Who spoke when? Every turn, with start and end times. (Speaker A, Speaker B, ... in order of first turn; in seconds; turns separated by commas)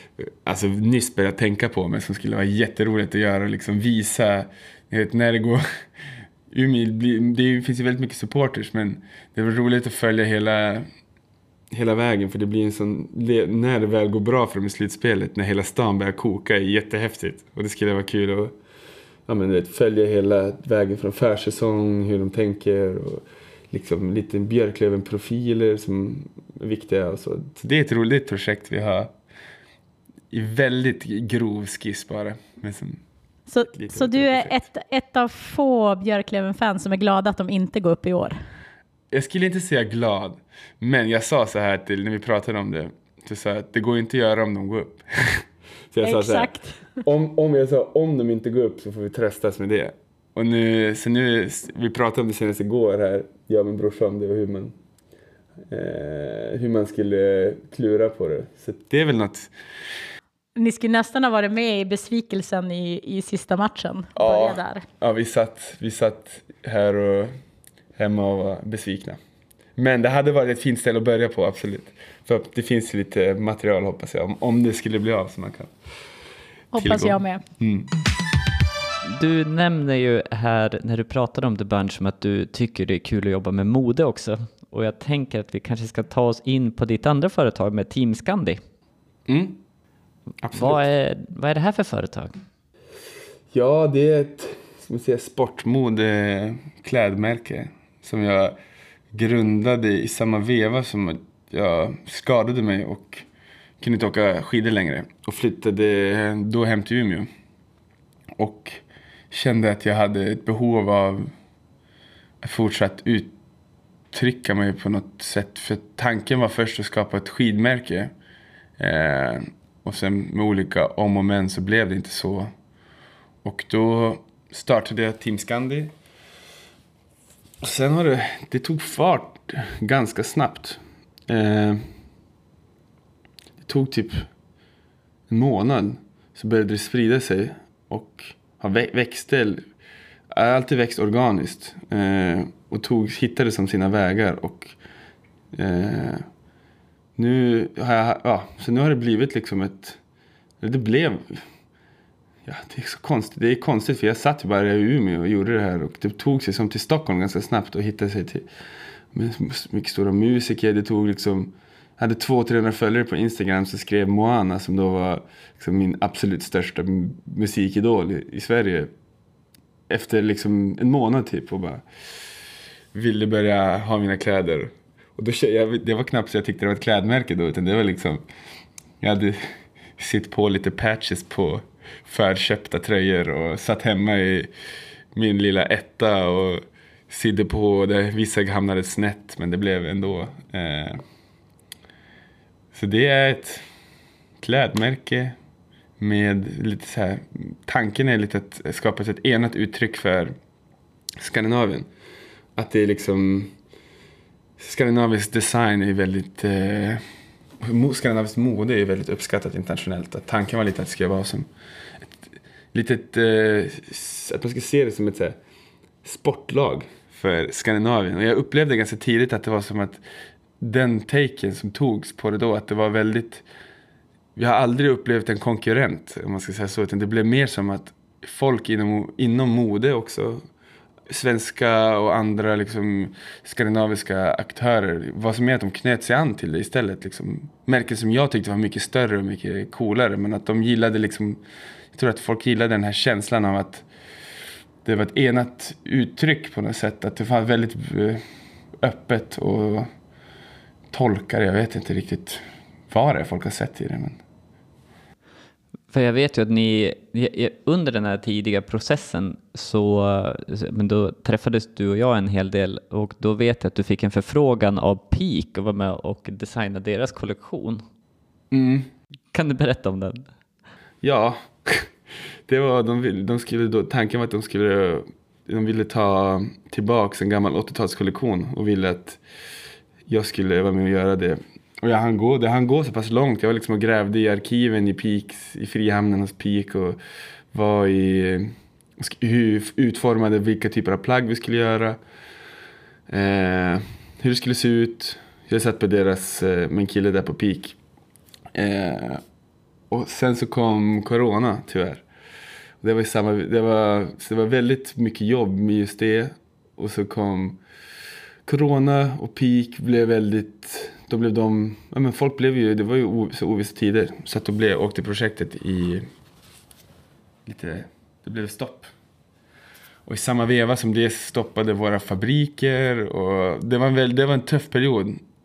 Speaker A: 0.2-5.6, Speaker A: 6.5-10.8, Speaker A: 11.7-18.5, Speaker A: 19.3-29.1, Speaker A: 30.3-33.0, Speaker B: 33.5-38.4, Speaker A: 33.7-34.6, Speaker A: 39.1-54.7, Speaker B: 46.0-47.0, Speaker A: 55.7-59.5, Speaker B: 60.5-64.8, Speaker A: 64.1-67.3, Speaker A: 68.0-69.2, Speaker A: 69.8-75.7, Speaker B: 76.7-77.4, Speaker A: 76.7-77.9, Speaker C: 79.0-88.6, Speaker A: 89.3-89.6, Speaker A: 90.4-90.9, Speaker C: 90.5-92.3, Speaker A: 93.5-98.5, Speaker A: 99.1-103.2, Speaker A: 103.8-107.3, Speaker A: 108.4-111.3, Speaker A: 112.4-113.3, Speaker A: 114.1-118.1, Speaker A: 118.8-122.5, Speaker A: 123.4-125.9, Speaker A: 127.6-131.8, Speaker A: 133.6-134.3, Speaker A: 135.3-139.6, Speaker A: 140.3-144.8, Speaker A: 145.5-146.2, Speaker A: 147.2-150.0, Speaker A: 150.6-151.4, Speaker A: 152.4-158.4, Speaker A: 159.1-168.9, Speaker A: 169.9-171.8, Speaker A: 172.9-178.2, Speaker A: 179.0-179.4, Speaker A: 179.9-184.5, Speaker A: 185.1-191.0, Speaker A: 192.7-193.6, Speaker A: 194.4-195.3, Speaker A: 196.0-200.3, Speaker A: 201.2-201.9, Speaker A: 202.6-203.5, Speaker A: 204.6-207.0, Speaker A: 207.6-211.5, Speaker A: 212.7-215.4, Speaker A: 216.0-220.0, Speaker A: 220.6-223.4, Speaker A: 224.3-230.4, Speaker A: 231.1-241.4, Speaker A: 241.9-243.8, Speaker A: 244.8-248.2, Speaker A: 248.8-249.9, Speaker A: 250.9-254.2, Speaker C: 255.9-267.8, Speaker A: 268.5-268.9, Speaker C: 269.3-270.3, Speaker A: 271.0-271.9, Speaker A: 272.5-279.2, Speaker A: 280.1-287.0, Speaker A: 287.5-292.0, Speaker A: 293.1-297.8, Speaker A: 298.5-299.2, Speaker A: 299.9-302.0, Speaker A: 302.8-307.6, Speaker A: 308.4-316.0, Speaker A: 317.4-318.9, Speaker A: 320.0-325.2